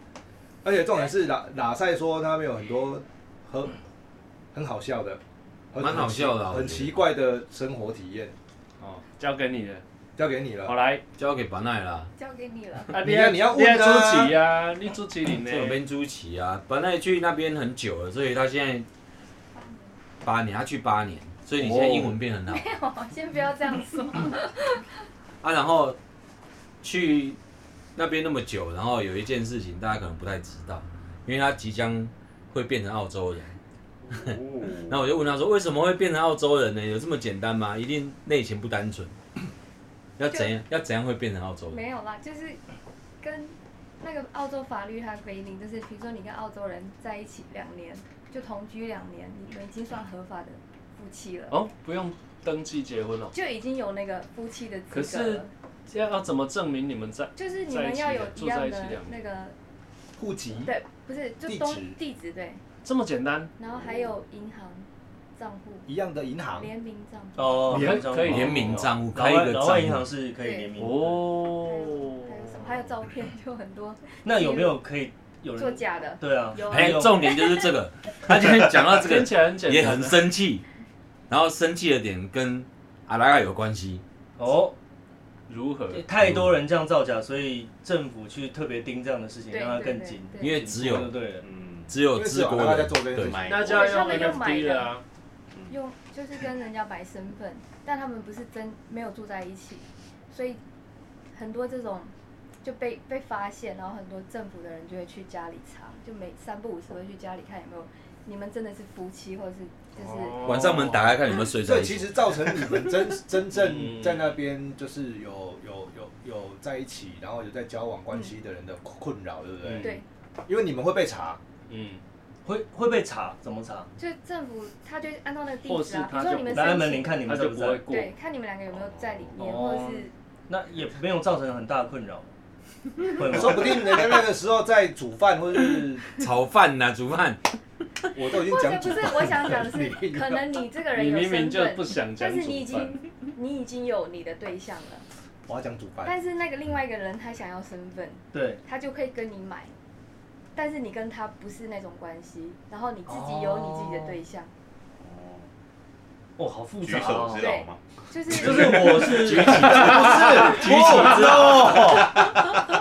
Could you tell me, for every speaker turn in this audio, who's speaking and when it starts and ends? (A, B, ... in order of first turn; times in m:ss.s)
0:00.6-0:03.8 A
0:04.5-0:05.2 A
0:05.7-0:08.3 A
0:05.8-0:07.0 B
0:08.8-0:09.8 C
0:10.2-0:10.8 A
0:10.6-0:11.0 C
0:11.2-0:12.1 B
0:12.2-0:13.0 D
0:12.9-0:15.8 C
0:12.9-0:14.4 A
0:15.3-0:18.9 B
0:19.5-0:20.0 D
0:20.2-0:22.7 B
0:21.6-0:22.1 C
0:22.5-0:24.9 D
0:25.4-0:26.0 B
0:26.8-0:27.4 B
0:28.0-0:33.6 B
0:34.1-0:34.9 E
0:34.1-0:39.1 B
0:40.2-0:41.8 B
0:40.3-0:40.5 D
0:41.7-0:42.6 D
0:43.2-0:51.6 D
0:51.5-0:53.3 C
0:53.3-0:55.5 D
0:54.9-0:59.2 C
0:57.4-0:59.5 D
1:00.2-1:00.7 A
1:00.6-1:02.6 D
1:01.4-1:02.0 A
1:02.8-1:03.5 C
1:03.6-1:04.8 D
1:03.8-1:04.1 E
1:05.4-1:05.9 D
1:05.9-1:06.7 A
1:06.5-1:07.7 D
1:07.4-1:11.4 F
1:07.7-1:08.9 C
1:07.7-1:08.0 A
1:08.2-1:10.1 B
1:10.4-1:10.7 D
1:10.8-1:12.4 C
1:11.4-1:14.8 D
1:14.2-1:17.2 F
1:15.6-1:17.6 D
1:16.6-1:20.6 B
1:18.6-1:20.3 C
1:21.3-1:24.0 B
1:24.4-1:24.7 F
1:25.5-1:26.0 C
1:25.9-1:31.4 F
1:26.2-1:26.6 B
1:29.5-1:30.7 D
1:30.4-1:31.2 B
1:31.4-1:32.0 E
1:31.9-1:33.4 B
1:32.1-1:33.5 A
1:33.2-1:34.5 E
1:33.4-1:35.0 C
1:33.6-1:35.0 D
1:35.7-1:40.6 D
1:41.3-1:42.1 D
1:42.6-1:50.6 D
1:50.0-1:51.1 C
1:50.4-1:52.1 B
1:51.6-1:59.9 A
1:53.5-1:54.1 F
1:59.7-2:00.0 D
2:00.5-2:01.4 A
2:01.7-2:02.0 C
2:02.4-2:03.9 F
2:04.0-2:07.3 D
2:05.6-2:08.1 C
2:06.5-2:07.8 F
2:07.8-2:10.1 D
2:08.7-2:09.4 E
2:09.4-2:12.3 F
2:13.0-2:14.0 F
2:13.2-2:16.1 A
2:16.2-2:17.4 B
2:18.1-2:20.4 A
2:18.4-2:25.0 D
2:20.9-2:23.0 C
2:25.5-2:26.2 A
2:26.0-2:29.7 D
2:28.3-2:28.6 F
2:30.5-2:34.5 D
2:33.1-2:34.2 F
2:34.9-2:35.5 E
2:36.4-2:37.5 F
2:36.8-2:37.8 E
2:37.3-2:39.1 D
2:38.3-2:42.0 F
2:38.3-2:38.9 E
2:39.1-2:42.4 A
2:39.3-2:40.9 B
2:40.0-2:40.4 C